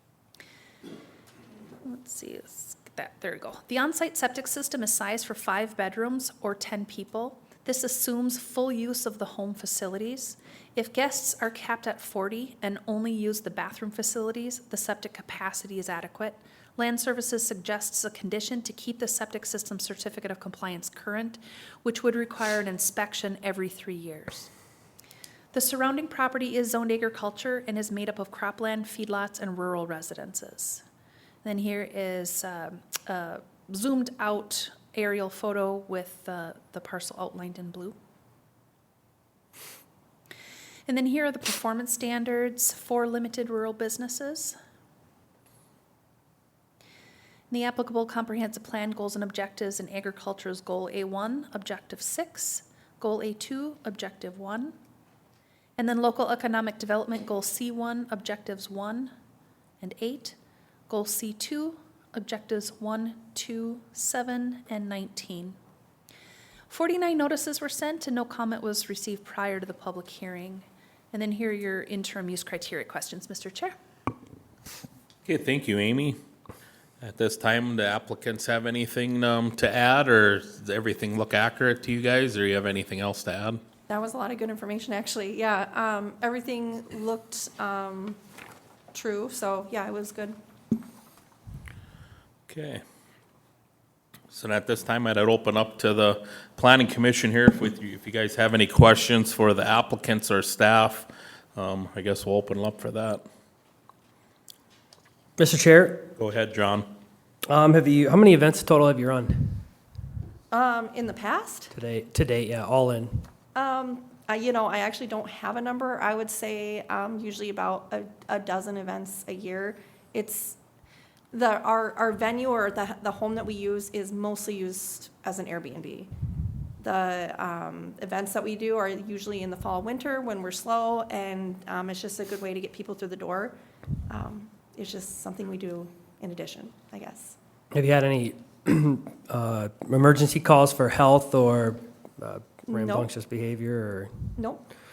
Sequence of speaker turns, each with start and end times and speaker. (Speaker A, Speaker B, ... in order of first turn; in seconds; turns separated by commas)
Speaker A: 1.8-24.5, Speaker A: 25.5-30.8, Speaker A: 31.4-38.0, Speaker A: 40.9-44.6, Speaker A: 47.5-54.7, Speaker A: 55.8-59.1, Speaker A: 59.8-60.4, Speaker A: 60.9-65.6, Speaker A: 66.7-73.7, Speaker B: 75.3-76.2, Speaker B: 77.0-83.6, Speaker C: 83.9-88.2, Speaker C: 88.9-90.4, Speaker B: 92.5-92.8, Speaker B: 94.3-103.2, Speaker D: 105.4-106.1, Speaker B: 106.2-106.9, Speaker D: 107.5-109.7, Speaker C: 110.5-111.7, Speaker D: 111.7-113.3, Speaker C: 113.5-120.6, Speaker C: 121.3-126.1, Speaker C: 126.8-133.6, Speaker C: 134.1-137.4, Speaker D: 137.7-144.4, Speaker C: 142.7-143.1, Speaker C: 144.4-144.7